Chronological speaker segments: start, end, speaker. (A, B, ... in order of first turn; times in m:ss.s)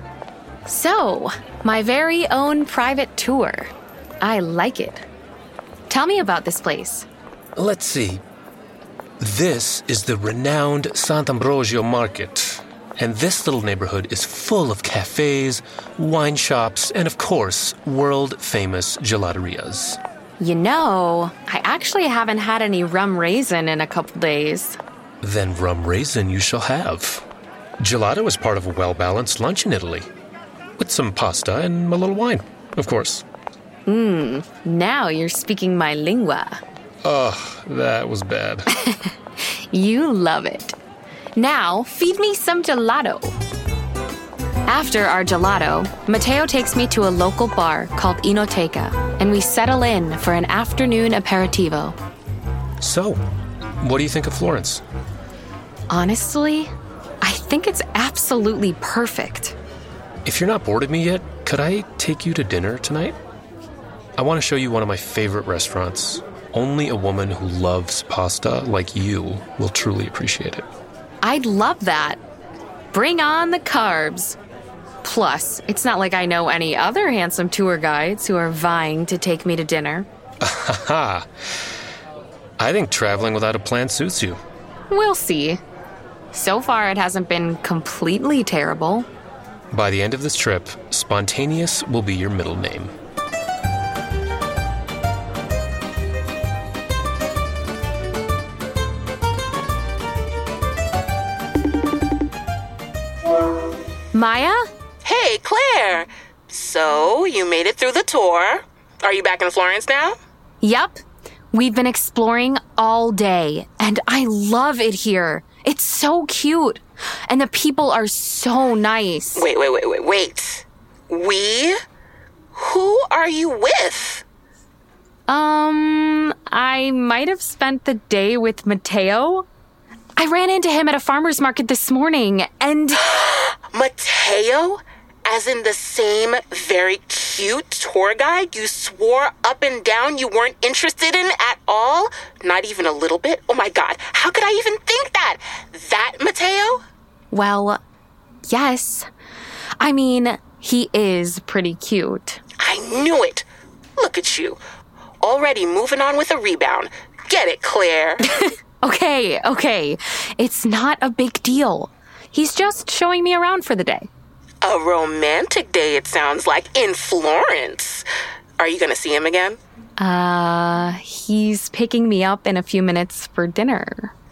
0:00.7-0:05.0 A
0:05.9-0:07.1 A
0:07.6-0:08.2 B
0:09.2-0:20.0 B
0:20.4-0:24.8 A
0:25.2-0:27.2 B
0:27.8-0:30.1 B
0:30.8-0:33.2 B
0:33.9-0:36.6 A
0:37.0-0:38.7 B
0:38.7-0:40.8 A
0:41.4-0:43.4 A
0:44.7-0:52.0 A
0:52.8-0:53.2 B
0:53.8-0:54.8 B
0:55.9-0:56.7 A
0:57.2-0:59.6 A
1:00.2-1:03.2 B
1:04.2-1:10.6 B
1:11.2-1:12.2 A
1:12.9-1:14.4 A
1:15.0-1:20.1 A
1:20.4-1:21.3 B
1:22.6-1:24.4 B
1:24.9-1:25.6 A
1:26.3-1:29.1 A
1:29.7-1:32.9 B
1:44.1-1:44.7 A
1:45.0-1:50.2 C
1:50.6-1:51.0 A
1:51.5-1:59.5 A
1:59.4-2:01.8 C
2:02.6-2:04.2 C
2:05.3-2:09.5 A
2:10.2-2:13.0 A
2:13.0-2:26.8 C
2:27.3-2:27.8 A
2:28.5-2:29.1 A
2:29.8-2:32.4 A
2:32.6-2:33.5 C
2:34.0-2:34.6 C
2:35.2-2:38.2 C
2:38.8-2:44.1 A
2:44.6-2:48.0 C
2:48.6-2:49.6 C
2:50.0-2:54.1 A